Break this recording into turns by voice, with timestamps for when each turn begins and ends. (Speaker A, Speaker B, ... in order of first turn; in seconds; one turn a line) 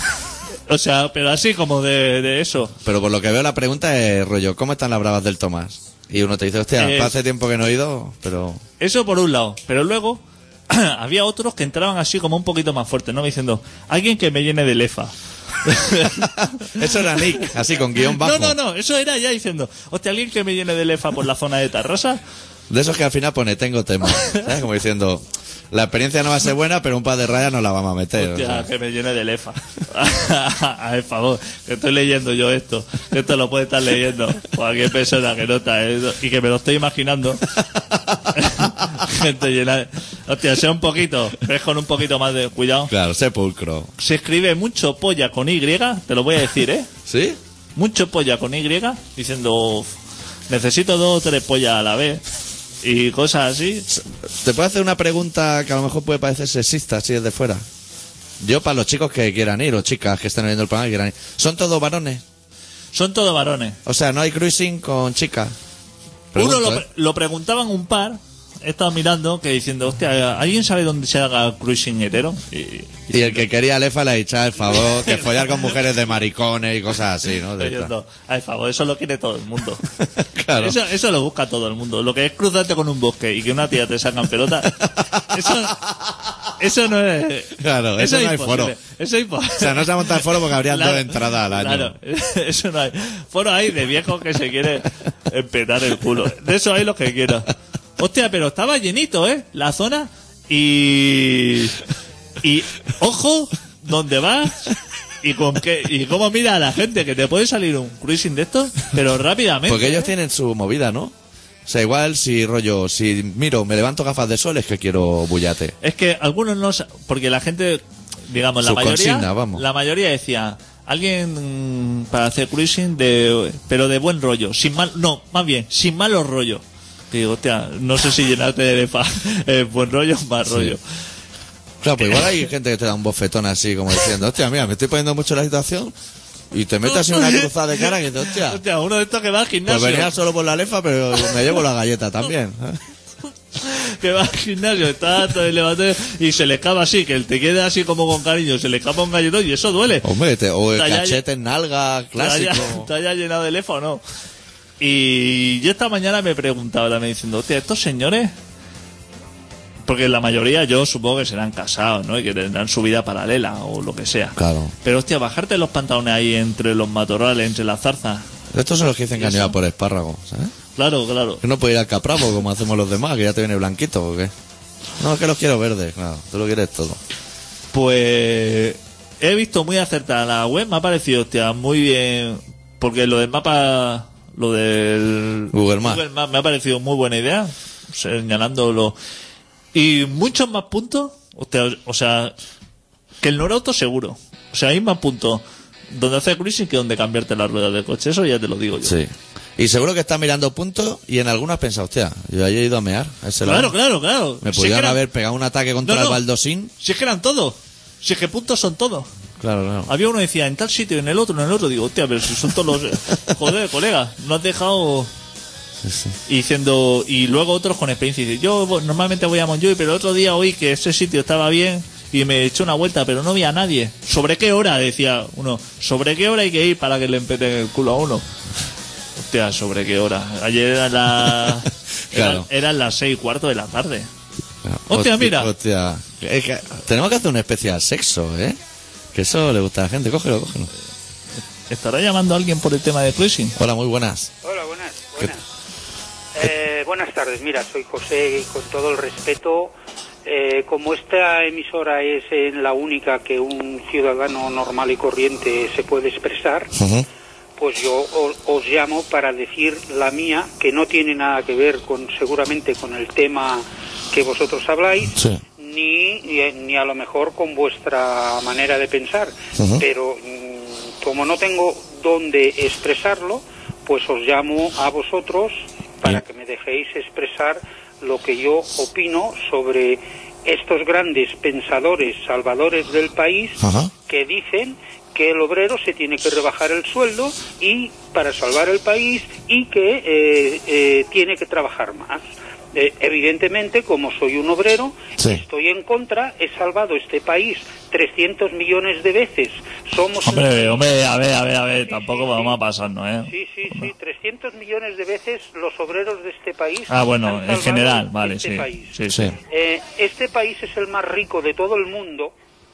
Speaker A: 0.7-2.7
Speaker B: 2.8-8.6
Speaker A: 6.8-7.2
Speaker A: 8.8-22.2
Speaker B: 16.2-18.5
Speaker B: 22.7-28.7
Speaker A: 28.2-37.5
Speaker B: 37.7-38.7
Speaker A: 38.3-42.9
Speaker B: 42.9-43.9
Speaker A: 44.0-46.9
Speaker B: 47.0-47.4
Speaker A: 47.8-49.9
Speaker A: 50.5-52.2
Speaker A: 52.8-53.9
Speaker B: 53.9-57.6
Speaker B: 58.4-62.2
Speaker A: 62.9-63.8
Speaker B: 63.8-65.5
Speaker B: 66.3-66.8
Speaker A: 66.3-73.4
Speaker B: 73.1-77.9
Speaker A: 74.7-75.7
Speaker A: 77.6-79.8
Speaker B: 80.2-80.8
Speaker A: 80.5-85.8
Speaker B: 84.8-85.7
Speaker A: 86.6-101.8
Speaker B: 87.6-88.8
Speaker B: 89.6-92.0
Speaker A: 102.4-110.1
Speaker B: 109.7-111.1
Speaker B: 111.7-115.7
Speaker A: 115.8-130.8
Speaker B: 118.6-119.6
Speaker B: 130.5-130.8
Speaker B: 131.8-135.9
Speaker A: 132.0-132.3
Speaker B: 136.5-138.6
Speaker A: 136.8-140.1
Speaker B: 139.7-142.8
Speaker A: 143.6-150.1
Speaker B: 150.0-152.9
Speaker A: 150.7-151.2
Speaker A: 152.2-154.0
Speaker A: 154.8-158.3
Speaker A: 159.8-168.2
Speaker B: 164.3-164.7
Speaker B: 168.5-170.5
Speaker A: 169.2-169.6
Speaker A: 170.8-171.4
Speaker B: 171.4-174.3
Speaker B: 175.0-177.0
Speaker A: 177.7-188.9
Speaker B: 185.5-186.0
Speaker A: 189.7-192.3
Speaker A: 193.2-198.9
Speaker B: 198.8-203.7
Speaker A: 203.4-205.0
Speaker B: 204.4-206.7
Speaker A: 205.8-206.2
Speaker A: 206.8-209.1
Speaker B: 209.4-209.9
Speaker A: 209.9-215.1
Speaker B: 215.8-216.1
Speaker A: 216.3-228.2
Speaker A: 229.2-234.1
Speaker B: 232.1-232.5
Speaker B: 234.6-238.6
Speaker A: 234.9-235.5
Speaker B: 239.1-240.7
Speaker A: 241.7-243.6
Speaker B: 243.6-244.3
Speaker C: 244.4-245.4
Speaker C: 246.3-249.7
Speaker C: 250.2-256.7
Speaker B: 256.8-257.1
Speaker C: 257.6-300.9
Speaker B: 265.1-265.4
Speaker B: 269.6-269.8
Speaker B: 283.6-283.9
Speaker A: 300.2-303.9
Speaker C: 301.8-302.6
Speaker C: 303.2-308.9
Speaker A: 306.9-309.3
Speaker C: 309.5-312.3